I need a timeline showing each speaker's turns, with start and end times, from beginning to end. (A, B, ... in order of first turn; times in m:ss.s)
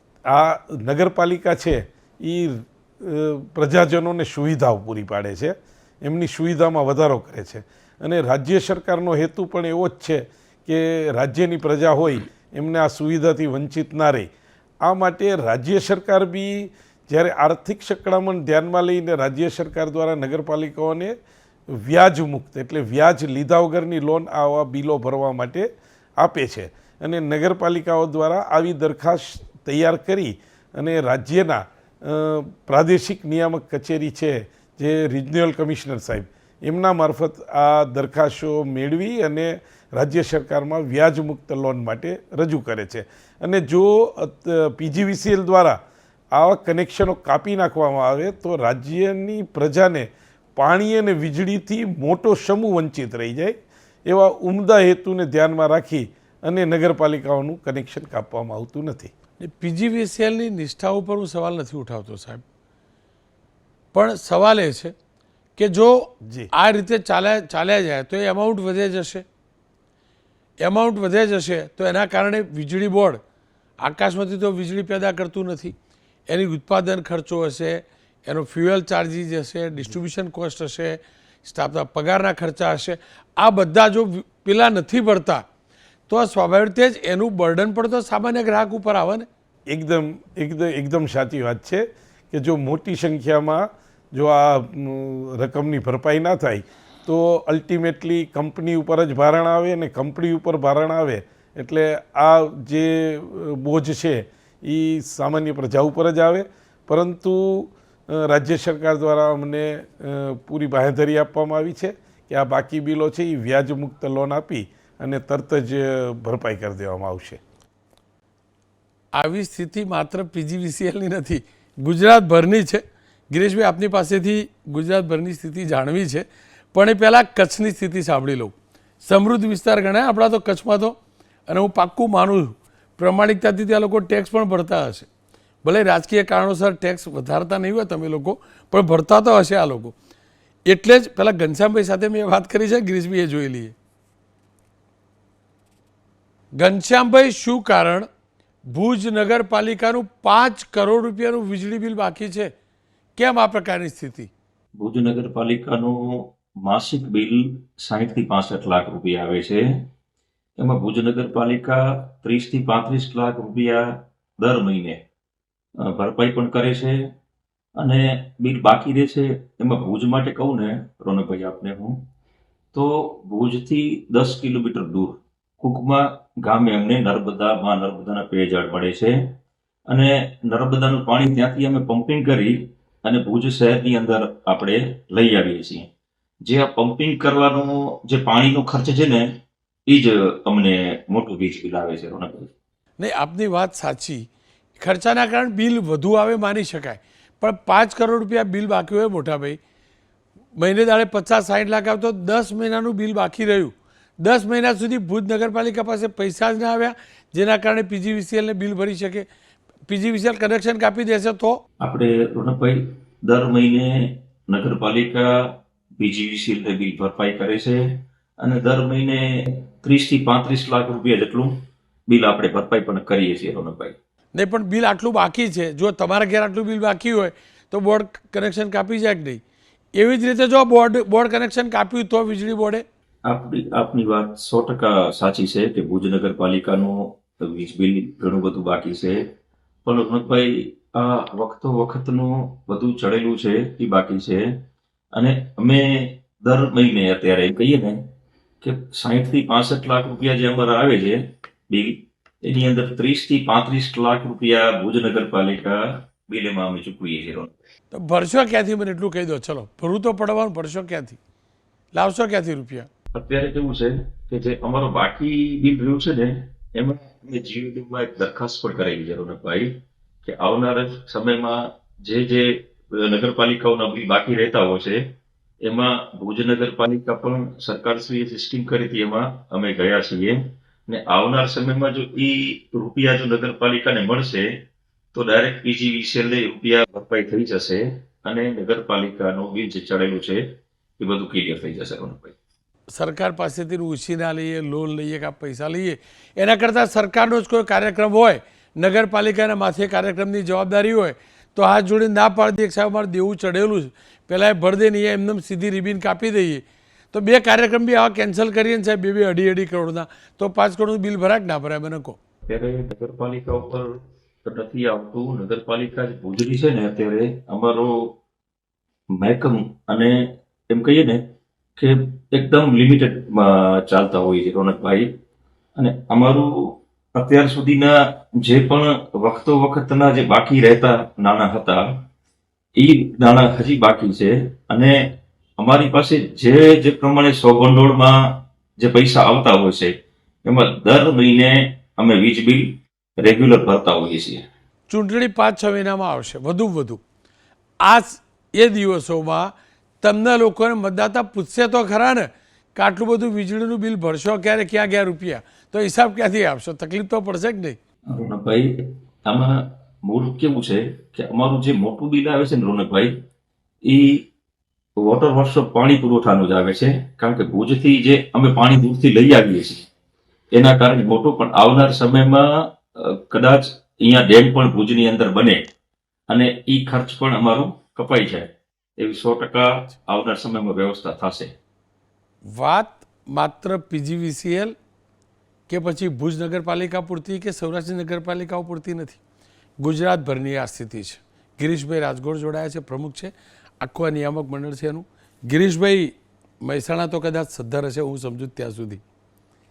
0:00.3-0:14.2 A
0:14.8-0:21.1 A
0:21.8-0:25.7 A
0:26.2-0:45.8 A
0:46.3-0:59.1 A
0:59.4-1:02.4 B
1:03.9-1:04.9 B
1:05.6-1:09.2 B
1:06.2-1:06.5 A
1:10.6-1:13.2 B
1:13.8-1:15.7 B
1:16.3-1:25.4 B
1:26.1-1:29.3 B
1:29.7-1:57.4 A
1:59.1-2:11.0 B
2:11.5-2:15.1 B
2:15.6-2:19.9 B
2:20.6-2:23.7 B
2:26.6-2:28.1 B
2:28.7-2:32.5 B
2:33.2-2:34.3 B
2:34.8-2:39.9 C
2:40.6-2:45.0 C
2:45.8-2:47.0 C
2:47.8-2:52.0 C
2:52.7-2:59.2 C
2:59.9-3:05.9 C
3:06.4-3:09.3 C
3:09.9-3:12.5 C
3:13.0-3:14.2 B
3:14.8-3:19.6 B
3:20.6-3:29.2 B
3:29.9-3:31.6 B
3:31.8-3:41.6 C
3:42.1-3:44.0 C
3:44.3-3:49.4 B
3:49.9-3:52.8 B
3:53.2-3:59.2 C
3:59.8-4:04.6 C
4:05.1-4:08.0 C
4:08.6-4:17.5 C
4:17.9-4:21.2 B
4:21.9-4:22.9 B
4:23.1-4:29.7 C
4:30.2-4:35.0 C
4:35.6-4:44.6 C
4:45.1-4:50.4 C
4:51.0-4:52.4 C
4:52.9-5:12.2 B
5:12.5-5:18.2 C
5:19.1-5:21.2 C
5:21.8-5:25.1 C
5:25.8-5:32.0 C
5:32.8-5:44.4 C
5:44.9-5:47.0 B
5:47.8-5:49.5 B
5:50.0-5:57.8 B
5:58.1-6:03.1 C
6:03.8-6:04.3 C
6:05.0-6:09.9 C
6:10.5-6:15.7 C
6:16.3-6:21.5 C
6:22.5-6:24.7 B
6:25.7-6:29.2 B
6:29.8-6:39.0 B